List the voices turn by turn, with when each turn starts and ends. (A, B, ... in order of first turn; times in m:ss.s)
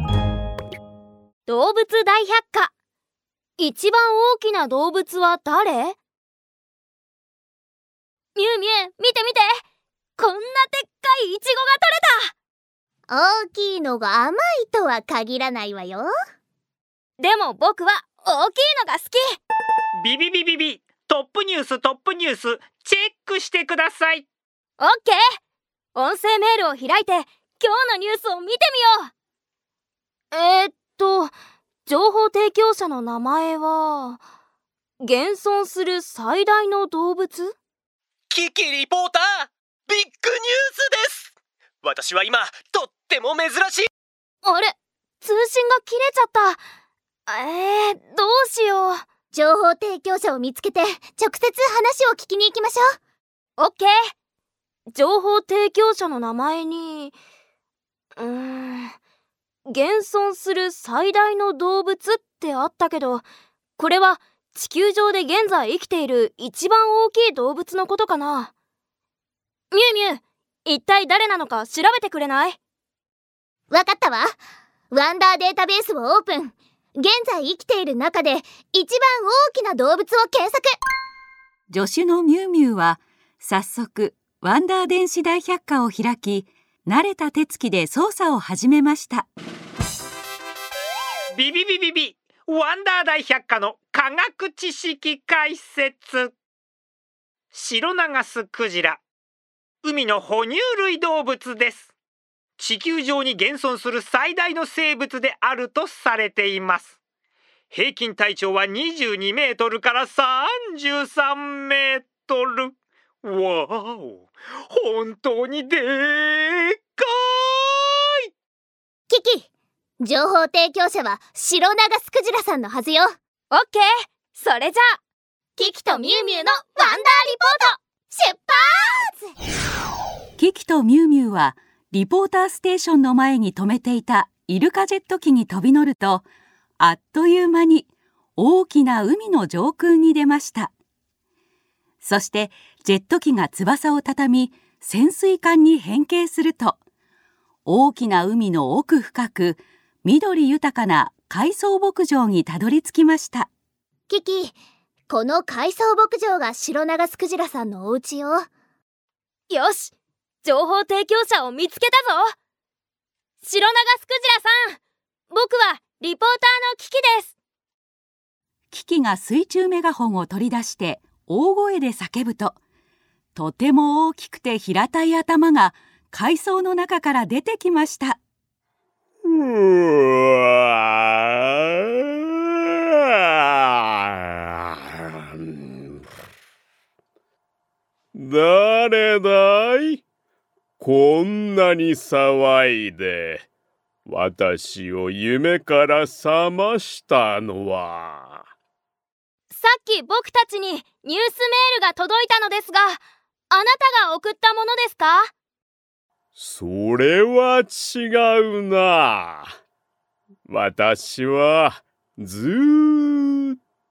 0:01.4-0:02.7 A
0:03.6-0:06.0 A
0:08.3-0:09.6 A
0:10.2-0:12.3 A
0:13.1-0:16.1 B
0:17.2-0:19.4 A
0:20.0-0:24.3 C
0:24.8-0:25.2 A
0:25.9-0:29.1 A
0:30.3-0:31.3 A
0:31.8-0:34.2 A
0:35.0-0:37.6 A
0:38.3-0:43.9 D
0:44.4-0:46.6 A
0:47.2-0:49.0 A
0:49.3-0:52.9 B
0:53.6-0:53.9 A
0:54.9-0:57.1 A
0:58.2-0:58.9 A
0:59.7-1:03.2 A
1:03.8-1:08.5 A
1:09.7-1:12.6 A
1:13.7-1:14.3 B
1:14.9-1:20.7 B
1:21.7-1:29.3 E
1:31.3-1:36.4 C
1:37.5-1:39.0 C
1:39.8-1:41.9 C
1:42.6-1:47.0 C
1:47.7-1:58.3 C
1:59.1-1:59.5 B
2:00.0-2:03.1 B
2:03.5-2:05.0 A
2:05.6-2:09.3 B
2:05.6-2:07.7 A
2:10.4-2:16.2 E
2:16.8-2:20.7 E
2:22.0-2:26.8 E
2:27.6-2:33.5 E
2:34.1-2:34.6 B
2:35.1-2:38.5 B
2:39.5-2:42.3 A
2:43.4-2:44.8 A
2:45.3-2:47.3 A
2:48.7-2:52.6 E
2:53.3-2:58.2 E
2:59.2-3:01.6 F
3:03.4-3:06.0 F
3:08.1-3:10.0 F
3:10.8-3:13.4 F
3:14.0-3:18.4 F
3:19.5-3:25.3 A
3:26.4-3:29.5 F
3:30.4-3:33.6 F